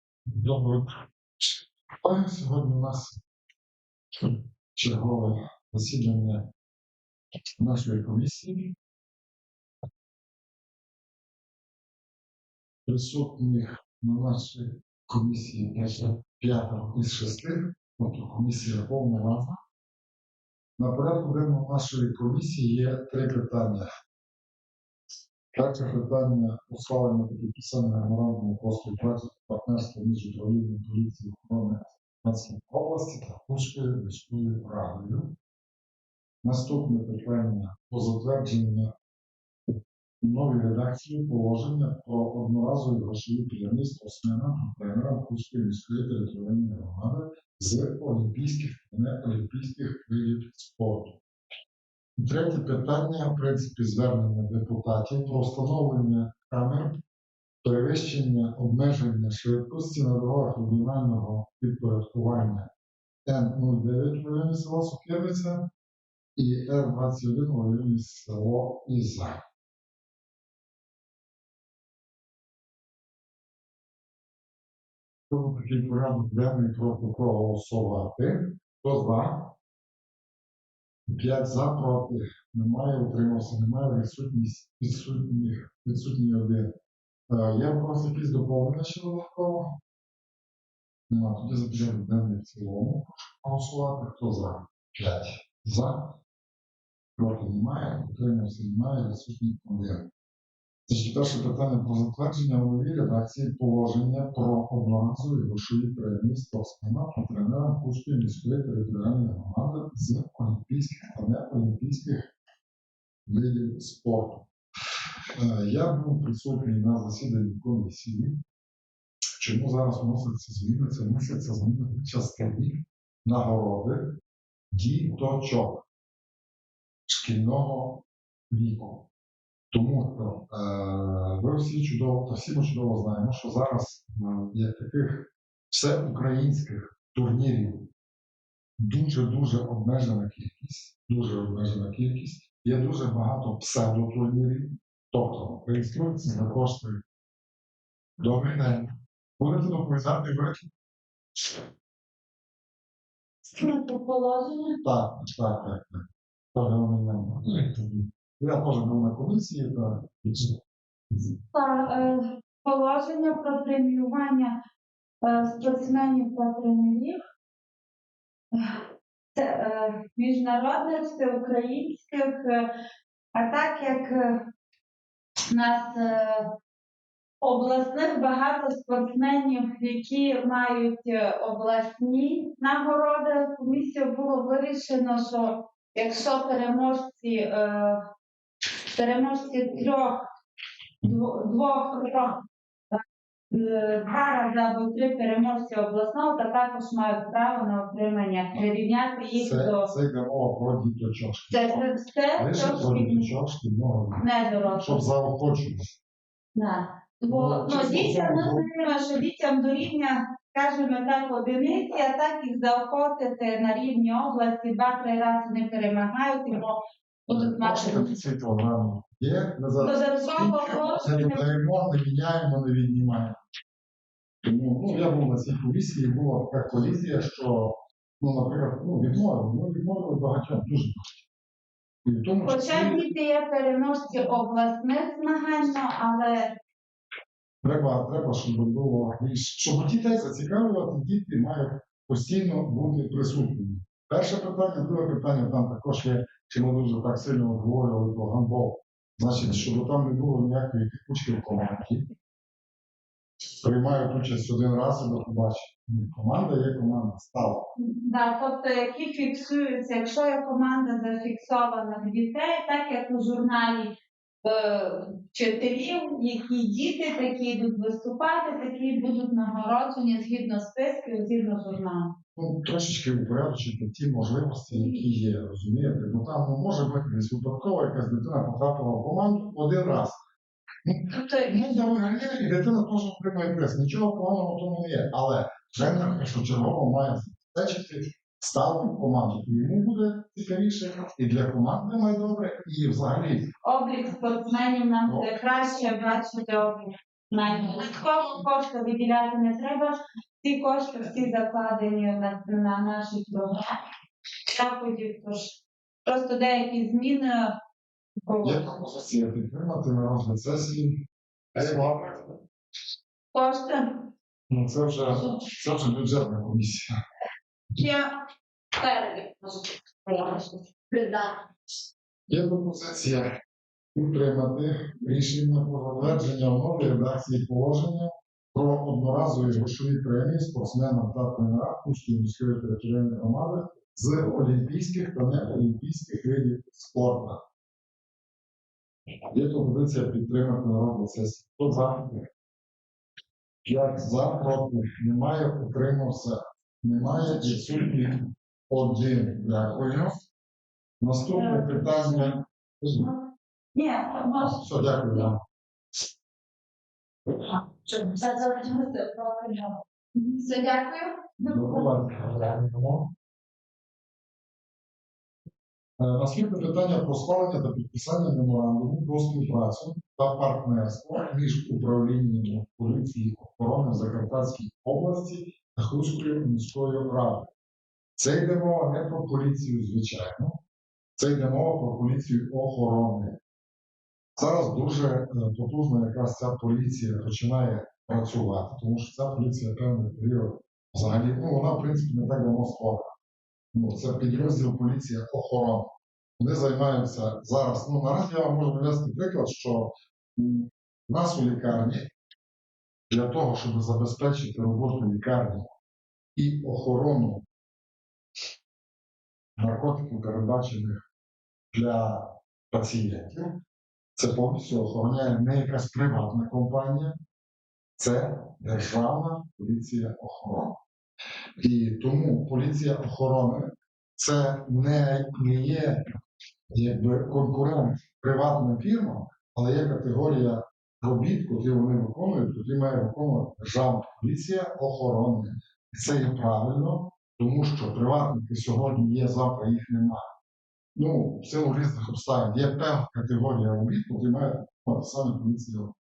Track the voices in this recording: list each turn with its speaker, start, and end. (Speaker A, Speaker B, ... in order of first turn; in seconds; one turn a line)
Speaker A: 0.3-0.9
Speaker A: 2.0-3.2
Speaker A: 4.2-6.4
Speaker A: 7.6-8.7
Speaker A: 12.8-19.6
Speaker A: 20.8-23.8
Speaker A: 25.5-35.3
Speaker A: 36.4-38.9
Speaker A: 40.2-51.2
Speaker A: 52.2-56.9
Speaker A: 57.6-62.7
Speaker A: 63.2-65.6
Speaker A: 66.3-69.4
Speaker A: 75.3-79.5
Speaker A: 81.1-86.7
Speaker A: 87.3-89.6
Speaker A: 91.1-96.0
Speaker A: 97.2-100.1
Speaker A: 100.9-112.3
Speaker A: 113.2-114.4
Speaker A: 115.4-118.3
Speaker A: 119.4-124.1
Speaker A: 124.7-125.8
Speaker A: 127.1-129.0
Speaker A: 129.7-137.8
Speaker A: 138.8-147.0
Speaker A: 148.2-148.8
Speaker A: 149.4-150.7
Speaker B: 153.6-154.7
Speaker A: 154.8-156.0
Speaker A: 156.5-160.5
Speaker B: 161.5-164.5
Speaker B: 165.2-167.1
Speaker B: 169.3-172.6
Speaker B: 173.3-174.4
Speaker B: 175.5-176.4
Speaker B: 177.4-188.0
Speaker B: 188.9-190.1
Speaker B: 191.0-192.3
Speaker B: 192.9-199.9
Speaker A: 199.3-201.7
Speaker B: 201.5-203.3
Speaker A: 202.4-204.2
Speaker B: 204.2-205.0
Speaker A: 204.8-206.0
Speaker B: 206.5-218.2
Speaker A: 207.3-208.7
Speaker A: 217.3-223.3
Speaker B: 219.8-221.4
Speaker A: 224.4-231.2
Speaker A: 232.0-233.0
Speaker B: 232.4-236.4
Speaker A: 237.6-252.0
Speaker A: 253.6-257.7
Speaker B: 257.8-263.9
Speaker B: 264.4-272.1
Speaker A: 272.3-280.2
Speaker A: 280.9-293.4
Speaker B: 281.1-281.7
Speaker B: 293.6-303.6
Speaker A: 295.0-295.3
Speaker B: 304.5-307.5
Speaker B: 308.2-308.7
Speaker A: 308.4-310.9
Speaker A: 311.5-312.3
Speaker B: 313.3-314.0
Speaker A: 314.5-316.9
Speaker B: 317.7-318.1
Speaker B: 318.8-321.4
Speaker A: 322.3-323.3
Speaker A: 323.9-337.4
Speaker A: 339.3-342.2
Speaker A: 343.6-350.2
Speaker A: 351.0-353.1
Speaker B: 351.4-352.3
Speaker B: 353.7-354.6
Speaker A: 354.4-355.4
Speaker B: 358.1-361.9
Speaker A: 361.4-363.1
Speaker A: 366.0-377.4
Speaker A: 378.2-380.6
Speaker A: 381.2-383.4
Speaker A: 384.4-393.1
Speaker A: 393.7-402.0
Speaker A: 403.1-405.7
Speaker A: 406.4-407.4
Speaker A: 409.6-411.1
Speaker A: 411.7-413.5
Speaker A: 414.1-417.1
Speaker A: 418.0-420.8
Speaker A: 421.6-423.6
Speaker A: 424.2-426.0
Speaker A: 426.7-440.2
Speaker A: 440.9-445.9